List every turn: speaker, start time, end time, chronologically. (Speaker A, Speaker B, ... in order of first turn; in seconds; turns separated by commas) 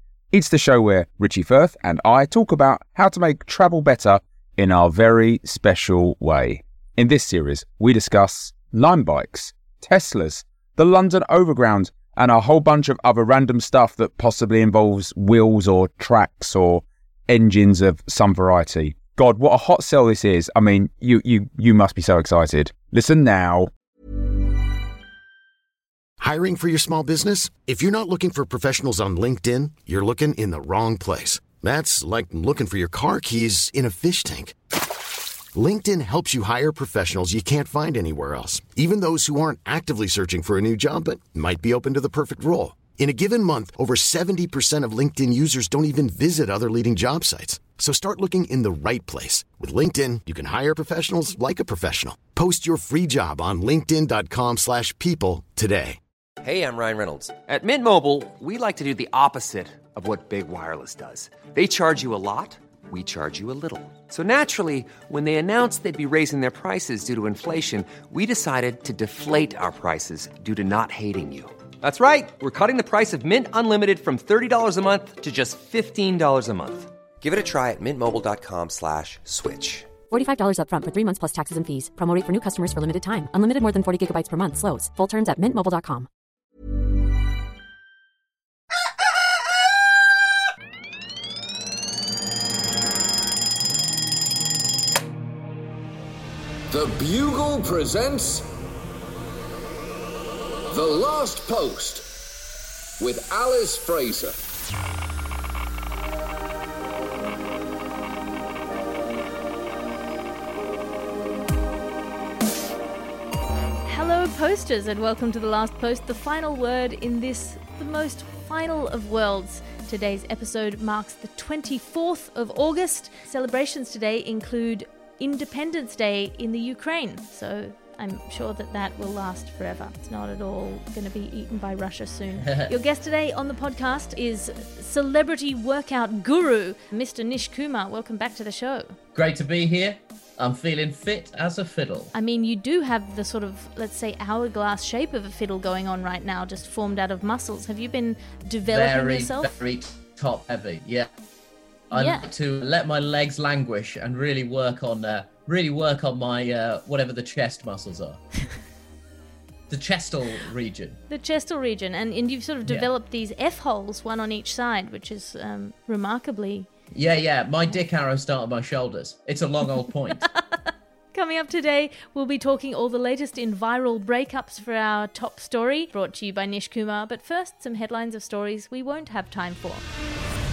Speaker A: 0.3-23.7, Speaker B: 26.2-34.5, Speaker B: 35.5-56.0, Speaker C: 56.4-80.0, Speaker D: 80.1-86.0, Speaker E: 96.7-98.5, Speaker E: 100.7-102.1, Speaker E: 103.0-104.4, Speaker F: 113.8-138.9, Speaker G: 132.4-132.7, Speaker G: 139.1-142.1, Speaker F: 142.1-149.5, Speaker G: 148.7-151.1, Speaker G: 151.9-158.2, Speaker F: 151.9-152.3, Speaker G: 159.7-161.0, Speaker F: 161.1-166.7, Speaker G: 166.9-170.3, Speaker F: 170.2-179.8